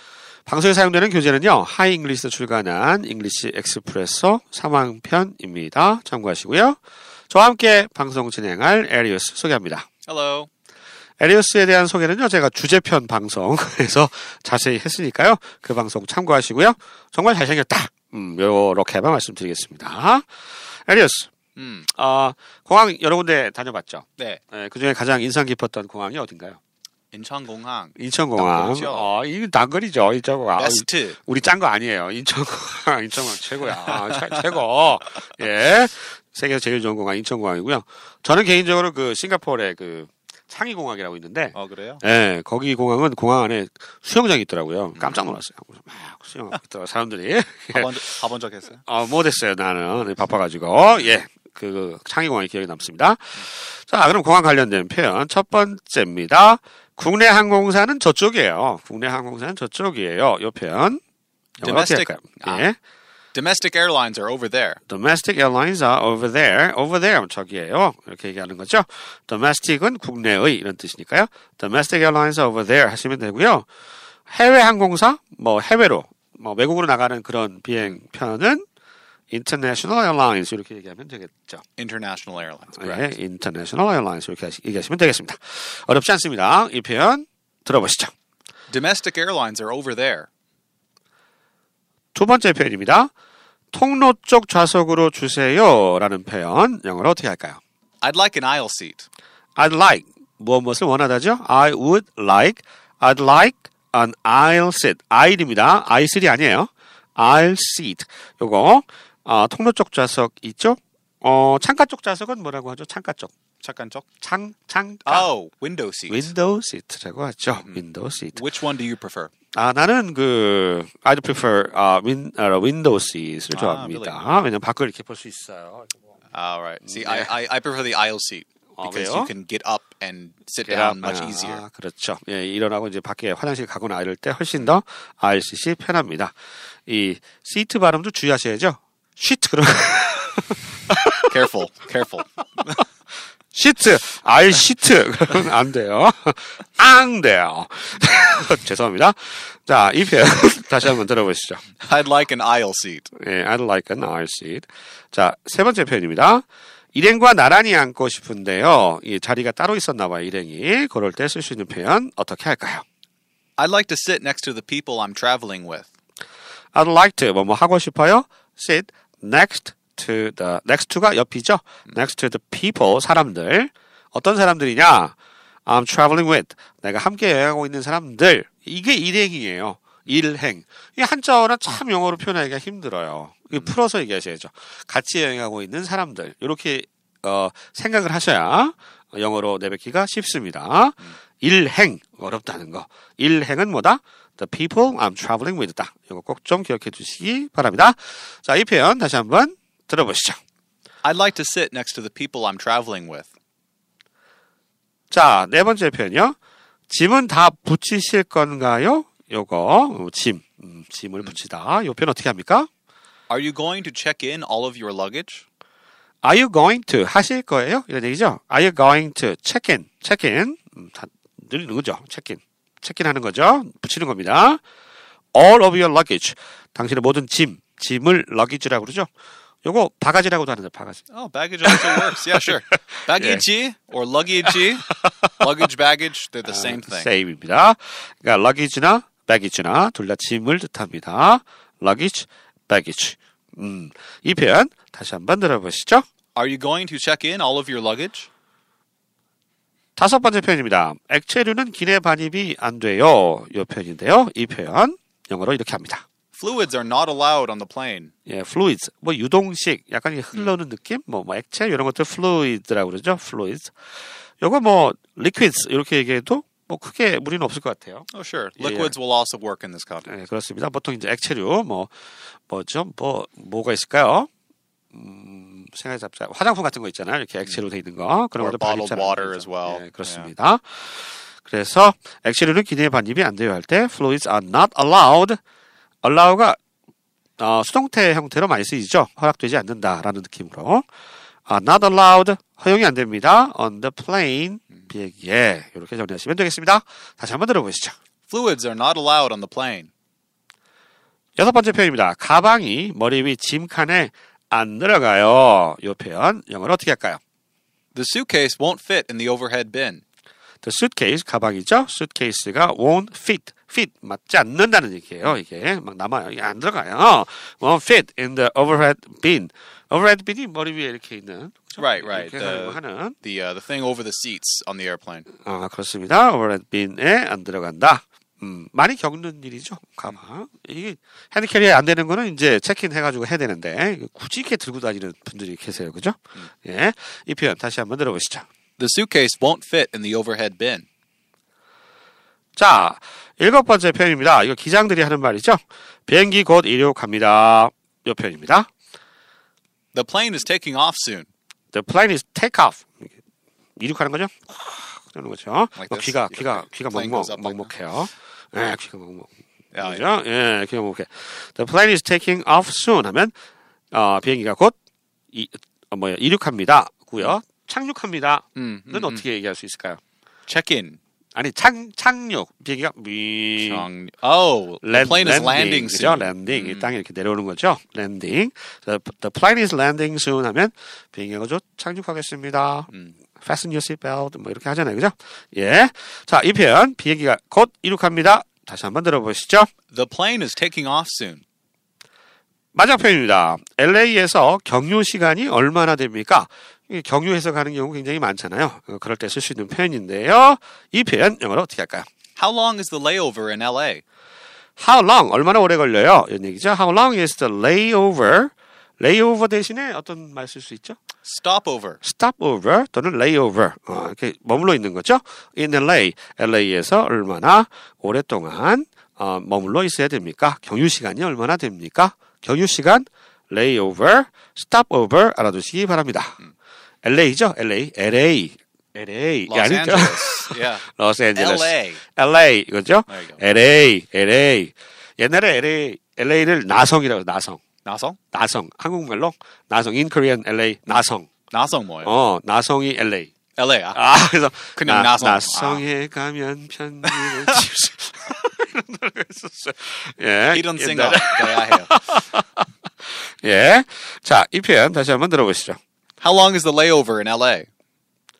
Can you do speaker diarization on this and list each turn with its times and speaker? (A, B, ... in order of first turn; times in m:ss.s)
0:00.5-0:06.8 A
0:07.3-0:09.9 A
0:10.0-0:10.5 B
0:11.2-0:20.3 A
0:20.8-0:21.3 A
0:21.6-0:21.9 B
0:21.9-0:26.6 A
0:27.1-0:29.1 B
0:28.0-0:48.0 A
0:30.6-0:31.2 B
0:33.7-0:34.5 B
0:41.5-0:42.0 B
0:44.9-0:45.3 B
0:47.7-0:48.8 B
0:48.8-1:01.0 A
1:01.6-1:02.7 B
1:01.6-1:02.8 A
1:03.3-1:04.8 B
1:04.9-1:13.7 A
1:14.3-1:18.6 A
1:19.3-1:21.6 A
1:21.8-1:23.1 B
1:22.8-1:28.1 A
1:28.7-1:30.3 B
1:32.1-1:33.1 A
1:33.7-1:37.6 A
1:38.0-1:39.0 B
1:39.6-1:53.3 A
1:53.6-1:54.0 B
1:54.2-1:55.3 A
1:55.0-1:56.3 B
1:56.1-1:58.4 A
1:58.3-1:59.3 B
1:59.5-2:05.9 A
2:03.5-2:04.2 B
2:06.3-2:11.6 B
2:06.8-2:07.3 A
2:08.8-2:09.3 A
2:10.6-2:16.3 A
2:16.8-2:21.3 A
2:21.3-2:22.8 B
2:23.5-2:31.6 A
2:31.8-2:33.1 B
2:33.1-2:42.8 A
2:43.6-2:45.9 B
2:46.7-2:55.1 A
2:55.6-3:20.4 A
3:21.0-3:23.3 B
3:25.1-3:26.3 A
3:26.9-3:32.7 A
3:33.3-3:35.4 B
3:36.2-3:44.6 A
3:45.3-3:49.1 A
3:49.6-3:51.1 A
3:51.1-3:57.1 B
3:51.6-3:52.2 A
3:53.2-3:53.4 A
3:56.5-4:06.0 A
4:06.3-4:08.3 B
4:10.0-4:16.0 A
4:16.3-4:18.1 B
4:18.3-4:23.7 A
4:24.4-4:28.1 A
4:28.1-4:30.1 B
4:28.6-4:28.9 A
4:30.0-4:31.9 A
4:32.5-4:34.3 A
4:34.9-4:45.4 A
4:38.4-4:40.3 B
4:46.0-4:46.6 A
4:47.4-4:50.8 A
4:51.5-4:58.0 A
4:58.3-4:59.9 B
5:01.4-5:07.2 A
5:07.9-5:10.0 B
5:10.6-5:23.2 A
5:21.8-5:25.3 B
5:25.4-5:38.4 A
5:38.8-5:40.8 B
5:42.6-5:48.7 A
5:49.9-5:51.3 B
5:51.7-5:53.1 A
5:53.8-6:03.3 A
5:55.8-5:57.7 B
5:59.7-6:00.1 B
6:03.9-6:04.7 A
6:05.3-6:10.0 A
6:08.5-6:09.2 B
6:10.5-6:11.0 B
6:11.3-6:13.8 A
6:13.6-6:16.9 B
6:14.8-6:29.7 A
6:29.9-6:31.4 B
6:32.7-6:42.1 A
6:42.4-6:44.0 B
6:44.8-6:51.0 A
6:51.2-6:52.0 B
6:52.0-7:06.4 A
7:07.0-7:17.6 A
7:09.5-7:12.0 B
7:13.1-7:13.4 B
7:17.8-7:18.2 B
7:18.3-7:21.3 A
7:21.5-7:22.2 B
7:22.0-7:23.3 A
7:23.6-7:24.0 B
7:23.9-7:32.6 A
7:24.8-7:25.8 B
7:27.1-7:27.3 B
7:30.5-7:31.9 B
7:33.4-7:35.8 A
7:36.2-7:37.7 B